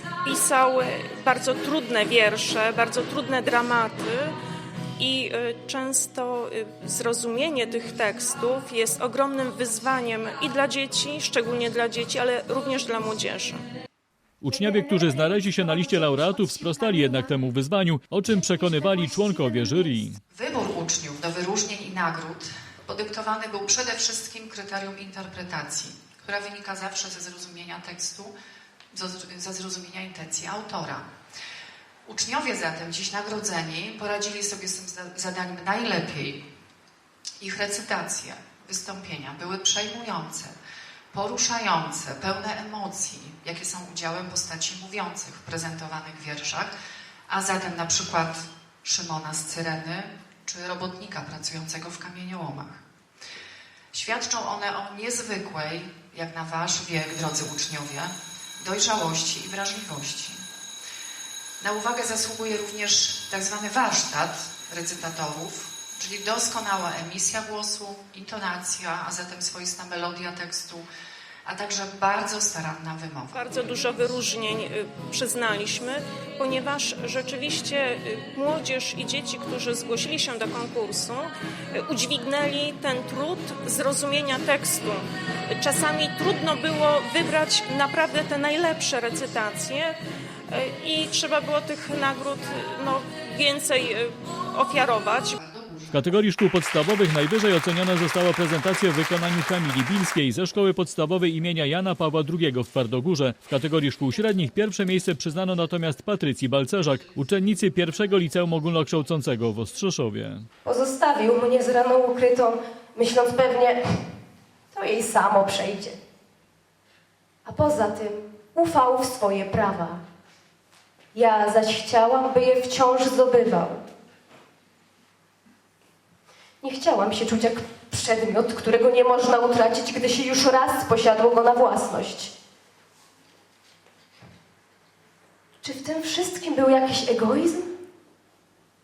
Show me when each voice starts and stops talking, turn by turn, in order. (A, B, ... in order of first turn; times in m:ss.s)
0:00.2-0:04.3 A
0:05.0-0:13.6 A
0:14.4-0:20.2 B
0:20.3-0:28.3 C
0:28.9-0:31.1 C
0:32.0-0:36.4 C
0:37.4-0:40.6 C
0:41.1-0:46.7 C
0:47.3-0:52.8 C
0:53.9-1:00.4 C
1:01.6-1:10.9 C
1:11.4-1:13.4 C
1:13.3-1:25.0 A
1:25.6-1:29.9 A
1:30.5-1:35.4 A
1:35.4-1:36.0 C
1:35.9-1:50.4 B
1:50.7-1:53.8 D
1:54.7-1:56.0 D
1:57.4-2:00.0 D
2:01.1-2:03.8 D
2:06.6-2:12.3 D
2:15.6-2:17.7 D